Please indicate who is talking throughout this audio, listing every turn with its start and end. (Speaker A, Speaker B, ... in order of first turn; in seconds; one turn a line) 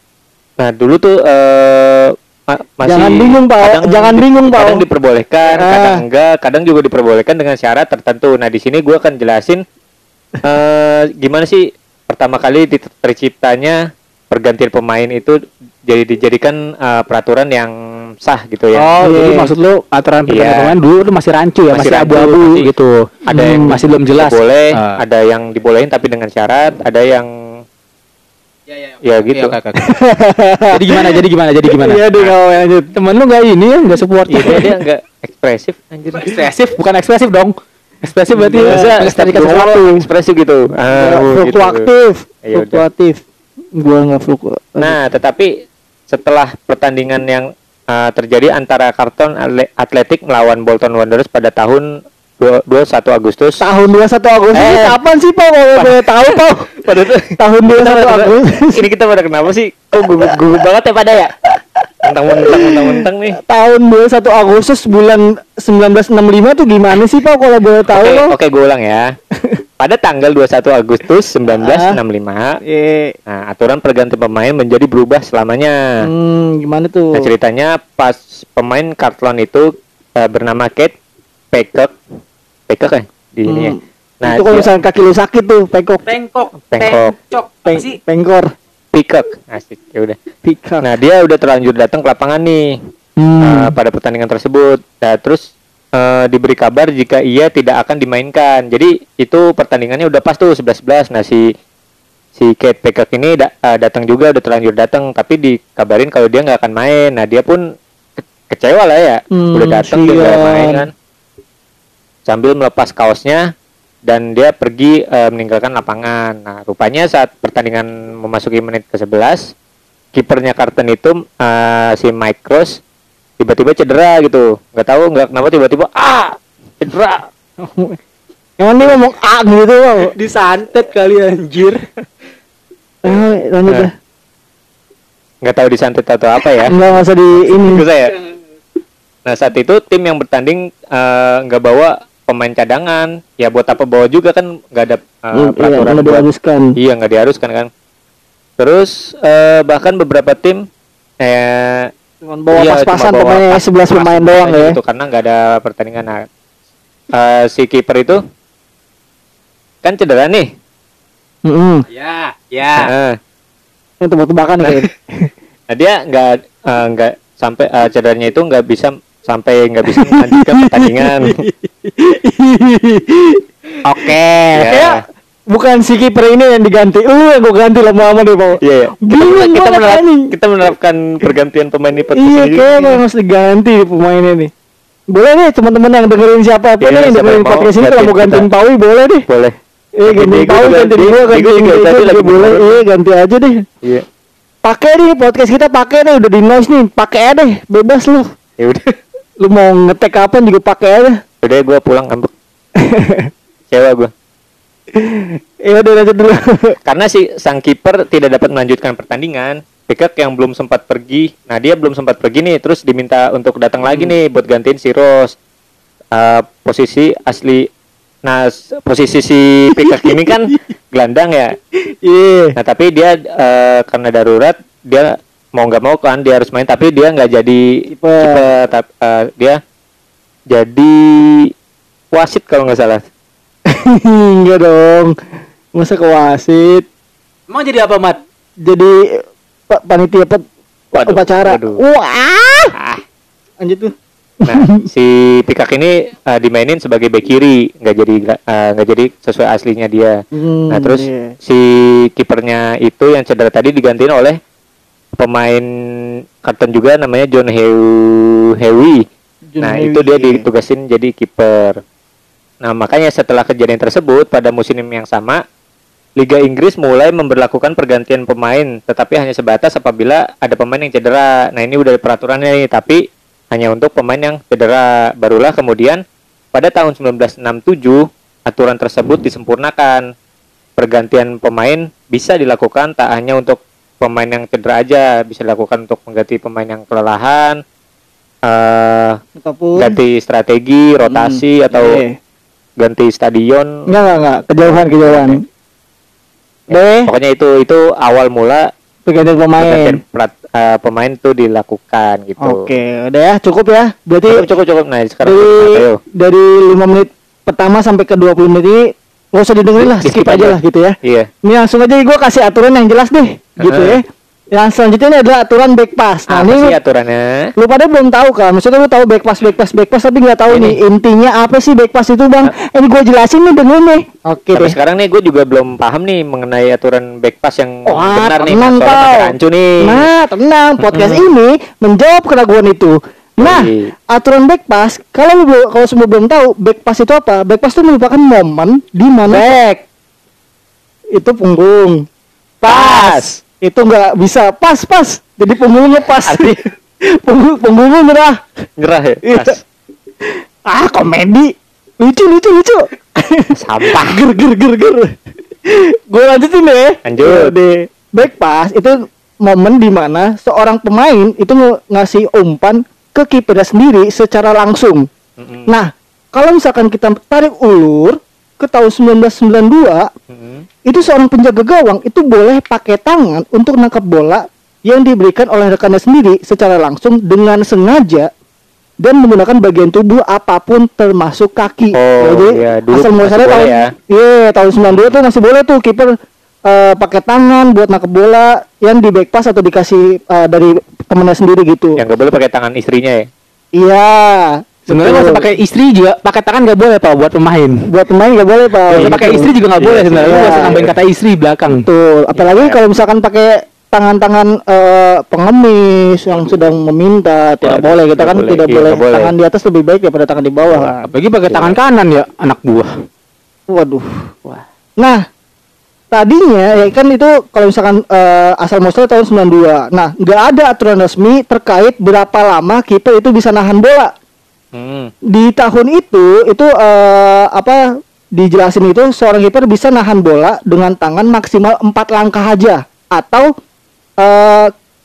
Speaker A: 0.6-9.6
Speaker B: 2.9-4.8
Speaker B: 5.5-6.0
Speaker A: 10.4-13.8
Speaker A: 14.3-15.4
Speaker A: 15.9-17.7
Speaker A: 18.2-18.9
Speaker C: 18.8-25.0
Speaker B: 19.0-19.5
Speaker A: 20.3-20.8
Speaker A: 21.7-22.7
Speaker A: 23.3-27.3
Speaker B: 23.3-23.8
Speaker C: 28.7-29.8
Speaker A: 29.0-29.6
Speaker B: 29.8-31.2
Speaker C: 30.7-32.0
Speaker B: 31.7-32.9
Speaker C: 32.9-34.7
Speaker A: 34.3-36.4
Speaker C: 36.1-40.0
Speaker B: 38.3-38.9
Speaker A: 38.6-41.9
Speaker B: 41.0-43.2
Speaker A: 42.5-42.8
Speaker B: 43.8-45.0
Speaker A: 44.8-45.5
Speaker A: 46.1-51.9
Speaker A: 52.4-53.6
Speaker B: 53.6-56.7
Speaker A: 54.5-55.0
Speaker A: 55.8-61.3
Speaker B: 57.4-58.9
Speaker B: 60.0-60.4
Speaker B: 61.5-68.3
Speaker A: 62.0-63.4
Speaker A: 67.9-69.1
Speaker A: 69.8-72.6
Speaker B: 71.6-72.0
Speaker B: 72.7-73.1
Speaker A: 73.3-76.1
Speaker B: 76.0-77.3
Speaker A: 77.1-80.9
Speaker A: 81.5-81.9
Speaker A: 82.7-84.7
Speaker B: 83.5-86.0
Speaker C: 86.1-88.0
Speaker A: 86.7-87.1
Speaker B: 87.7-88.5
Speaker A: 88.9-90.2
Speaker B: 90.4-90.8
Speaker A: 90.8-92.8
Speaker B: 93.2-93.7
Speaker A: 93.4-95.4
Speaker A: 96.0-101.4
Speaker A: 102.4-107.6
Speaker A: 108.2-110.9
Speaker B: 109.3-110.8
Speaker A: 112.3-113.4
Speaker A: 114.1-119.5
Speaker A: 120.1-122.8
Speaker A: 123.4-127.3
Speaker B: 127.6-128.0
Speaker B: 128.6-130.1
Speaker C: 130.1-131.8
Speaker B: 133.0-133.9
Speaker A: 135.4-138.1
Speaker B: 136.7-137.8
Speaker A: 139.3-146.2
Speaker B: 145.4-146.7
Speaker A: 146.8-147.7
Speaker A: 148.6-150.6
Speaker A: 151.2-151.9
Speaker B: 152.2-154.8
Speaker A: 152.5-156.2
Speaker A: 157.1-158.2
Speaker A: 159.8-160.5
Speaker B: 161.5-161.9
Speaker C: 161.9-162.9
Speaker A: 162.8-163.2
Speaker B: 164.0-165.3
Speaker A: 165.7-171.3
Speaker B: 170.0-173.4
Speaker C: 173.8-174.7
Speaker A: 174.5-175.0
Speaker B: 174.7-180.3
Speaker A: 178.6-183.0
Speaker B: 182.2-184.5
Speaker B: 185.1-189.2
Speaker A: 186.8-188.5
Speaker A: 189.3-192.8
Speaker B: 190.0-193.6
Speaker B: 194.7-198.3
Speaker A: 198.6-198.9
Speaker B: 199.4-201.2
Speaker A: 201.4-202.3
Speaker B: 202.8-203.3
Speaker A: 203.7-204.1
Speaker B: 204.9-206.8
Speaker A: 206.9-215.3
Speaker A: 216.1-217.7
Speaker A: 218.2-221.5
Speaker B: 219.8-220.2
Speaker B: 222.1-222.6
Speaker A: 222.6-227.7
Speaker B: 227.9-228.4
Speaker A: 228.2-229.6
Speaker A: 230.5-231.5
Speaker A: 232.1-233.0
Speaker B: 233.7-235.2
Speaker B: 235.8-236.8
Speaker C: 237.5-238.2
Speaker B: 238.7-240.4
Speaker A: 240.9-241.8
Speaker B: 241.0-242.8
Speaker A: 242.8-243.0
Speaker B: 243.6-244.8
Speaker A: 244.4-250.1
Speaker B: 250.3-251.3
Speaker A: 250.7-254.4
Speaker A: 255.2-255.7
Speaker A: 256.4-259.0
Speaker B: 259.5-260.4
Speaker A: 259.6-261.8
Speaker A: 262.6-265.4
Speaker A: 266.2-273.0
Speaker A: 273.5-276.0
Speaker A: 276.5-280.0
Speaker A: 280.8-287.6
Speaker A: 288.5-289.2
Speaker B: 289.4-290.0
Speaker A: 289.8-292.0
Speaker B: 291.1-292.1
Speaker A: 292.8-293.7
Speaker B: 293.9-295.4
Speaker A: 294.6-295.4
Speaker A: 296.7-298.6
Speaker B: 296.7-297.1
Speaker B: 299.1-300.0
Speaker A: 299.6-302.7
Speaker B: 302.4-304.4
Speaker A: 304.3-306.0
Speaker B: 305.2-314.0
Speaker A: 309.8-311.3
Speaker A: 313.6-314.0
Speaker B: 314.6-316.8
Speaker A: 316.3-317.4
Speaker B: 317.6-324.8
Speaker A: 320.5-320.8
Speaker A: 324.5-330.1
Speaker B: 327.9-339.8
Speaker A: 330.8-331.2
Speaker A: 333.4-333.9
Speaker B: 341.1-342.1
Speaker A: 342.6-343.4
Speaker B: 342.7-346.6
Speaker A: 346.2-346.6
Speaker B: 347.1-348.6
Speaker A: 348.8-349.6
Speaker B: 349.2-349.6
Speaker B: 350.2-355.1
Speaker A: 353.6-354.2
Speaker B: 355.7-365.1
Speaker A: 357.1-357.5
Speaker A: 365.4-365.7
Speaker B: 365.7-370.1
Speaker A: 370.3-370.7
Speaker B: 370.9-378.3
Speaker B: 379.0-386.1
Speaker A: 381.9-383.9
Speaker A: 384.9-385.2
Speaker B: 386.7-392.0
Speaker A: 392.0-393.3
Speaker B: 393.8-395.4
Speaker C: 394.9-397.8
Speaker B: 397.9-399.5
Speaker A: 398.9-400.9
Speaker C: 398.9-401.9
Speaker B: 400.3-400.8
Speaker B: 401.7-411.1
Speaker A: 402.4-402.8
Speaker A: 407.6-409.3
Speaker A: 410.7-410.9
Speaker C: 411.1-412.9
Speaker A: 411.5-411.8
Speaker B: 413.7-415.2
Speaker B: 416.1-424.1
Speaker A: 424.7-425.1
Speaker B: 425.3-427.8
Speaker B: 428.4-433.5
Speaker B: 434.2-434.7